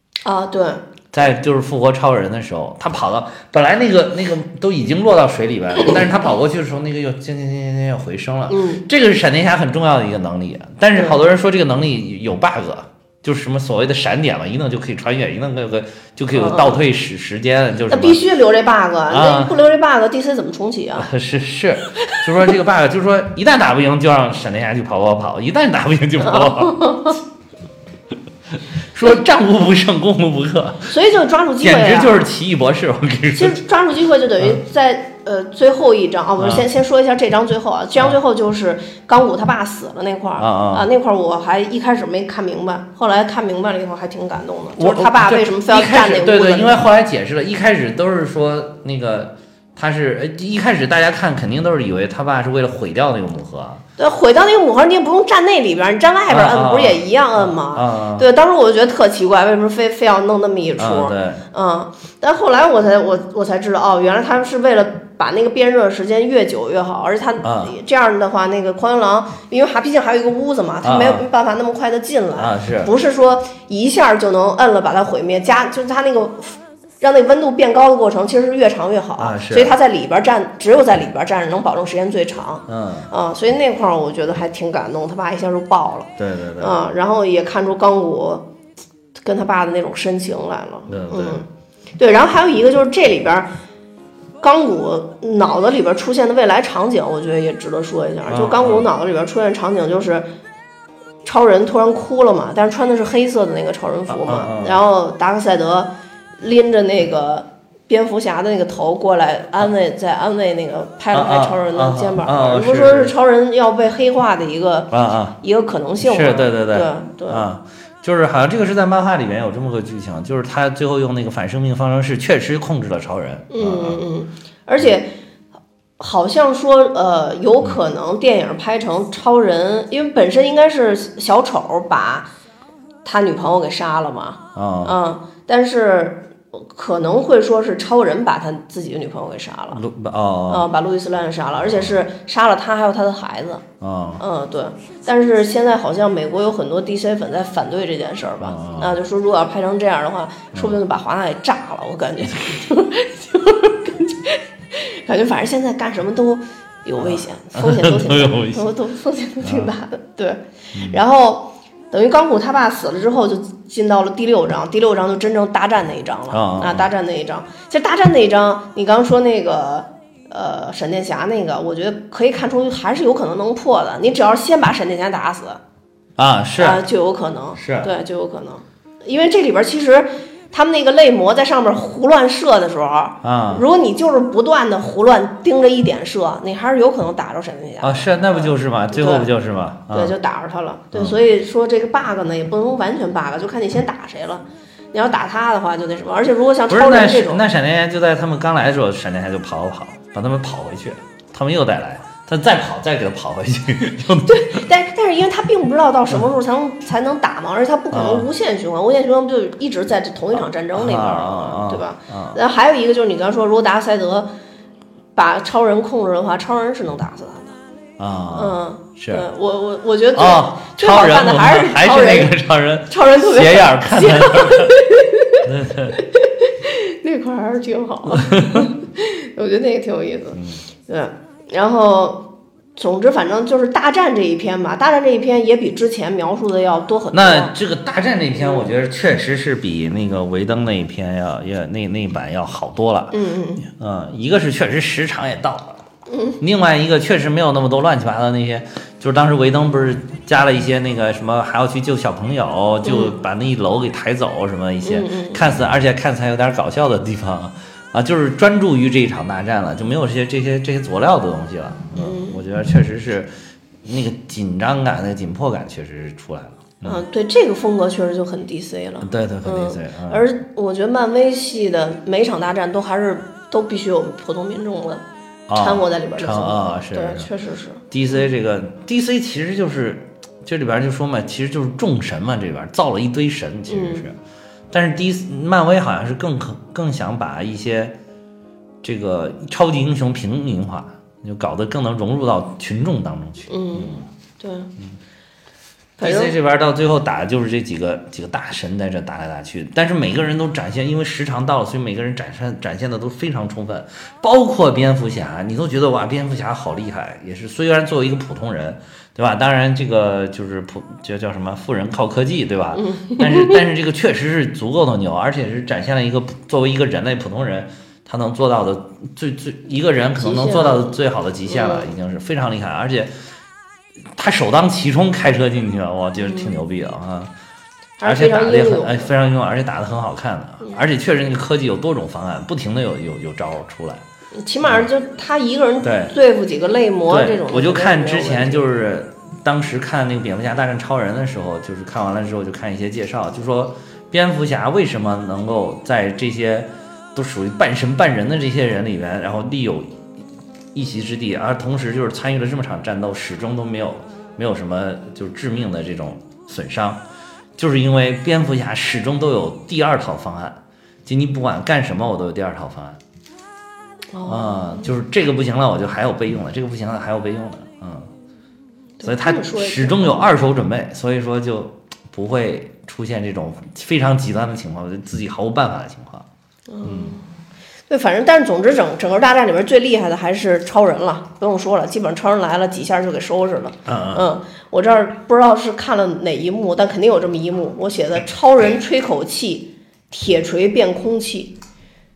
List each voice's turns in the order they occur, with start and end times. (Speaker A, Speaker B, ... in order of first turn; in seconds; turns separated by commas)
Speaker A: 0.2-0.8, Speaker B: 1.1-18.2, Speaker A: 8.5-8.8, Speaker A: 10.9-11.2, Speaker A: 16.3-16.8, Speaker A: 17.9-21.1, Speaker B: 19.1-19.5, Speaker B: 21.0-26.8, Speaker A: 26.2-27.2, Speaker B: 28.9-30.9, Speaker A: 30.9-32.3, Speaker B: 31.6-33.6, Speaker A: 33.3-46.8, Speaker B: 36.4-36.6, Speaker B: 40.4-40.9, Speaker B: 44.8-53.8, Speaker A: 54.0-88.5, Speaker B: 56.3-58.2, Speaker B: 60.8-61.4, Speaker B: 67.4-67.7, Speaker B: 70.8-71.2, Speaker B: 72.3-72.9, Speaker B: 79.2-79.8, Speaker B: 82.7-83.1, Speaker B: 86.2-86.8, Speaker A: 89.2-91.5, Speaker B: 90.9-91.4, Speaker A: 92.0-93.5, Speaker A: 94.4-100.2, Speaker B: 98.3-98.9, Speaker A: 101.2-117.4, Speaker B: 104.1-104.8, Speaker B: 111.1-113.1, Speaker B: 114.9-115.4, Speaker B: 116.0-124.0, Speaker A: 123.5-125.1, Speaker A: 126.0-132.3, Speaker A: 133.0-139.8, Speaker B: 134.5-134.9, Speaker B: 139.7-140.7, Speaker A: 140.5-143.6, Speaker B: 141.6-141.9, Speaker B: 143.8-144.2, Speaker A: 144.2-175.6, Speaker B: 148.4-149.0, Speaker B: 157.0-158.7, Speaker B: 159.4-159.7, Speaker B: 160.7-161.0, Speaker B: 166.3-166.9, Speaker B: 176.2-176.8, Speaker A: 176.6-189.3, Speaker B: 177.5-177.9, Speaker B: 183.2-183.6, Speaker B: 187.8-190.1, Speaker A: 189.9-197.4, Speaker B: 190.9-191.2, Speaker B: 196.7-204.6, Speaker A: 204.2-214.3, Speaker B: 207.9-208.3, Speaker B: 210.7-212.4, Speaker A: 215.1-217.6, Speaker B: 218.0-219.2, Speaker A: 218.3-222.3, Speaker B: 220.1-224.8, Speaker A: 222.9-237.5, Speaker B: 225.4-226.0, Speaker B: 228.2-228.7, Speaker B: 230.3-230.6, Speaker B: 237.1-245.8, Speaker A: 238.4-238.7, Speaker A: 243.1-243.6, Speaker A: 246.1-246.4, Speaker B: 246.4-263.3, Speaker A: 252.8-253.2, Speaker A: 254.8-255.4, Speaker A: 261.9-262.4, Speaker B: 263.8-267.0, Speaker A: 266.8-275.0, Speaker B: 269.0-270.2, Speaker B: 275.5-277.3, Speaker A: 275.5-277.8, Speaker B: 277.9-284.2, Speaker A: 283.7-284.1, Speaker B: 284.7-287.9, Speaker B: 288.8-294.0, Speaker A: 293.5-294.7, Speaker B: 296.0-323.1, Speaker A: 296.0-296.3, Speaker A: 312.7-313.6, Speaker A: 320.2-321.9, Speaker B: 324.1-327.3, Speaker A: 326.2-326.6, Speaker A: 328.0-329.1, Speaker B: 328.0-334.0, Speaker A: 334.3-338.6, Speaker B: 334.6-334.9, Speaker B: 335.8-336.1, Speaker B: 337.1-350.0, Speaker B: 350.7-357.0, Speaker B: 357.6-363.0, Speaker A: 364.1-364.9, Speaker B: 364.2-368.1, Speaker A: 369.0-370.2, Speaker B: 369.0-376.3, Speaker A: 376.7-377.2, Speaker B: 376.8-377.1, Speaker A: 377.9-391.6, Speaker B: 383.9-384.2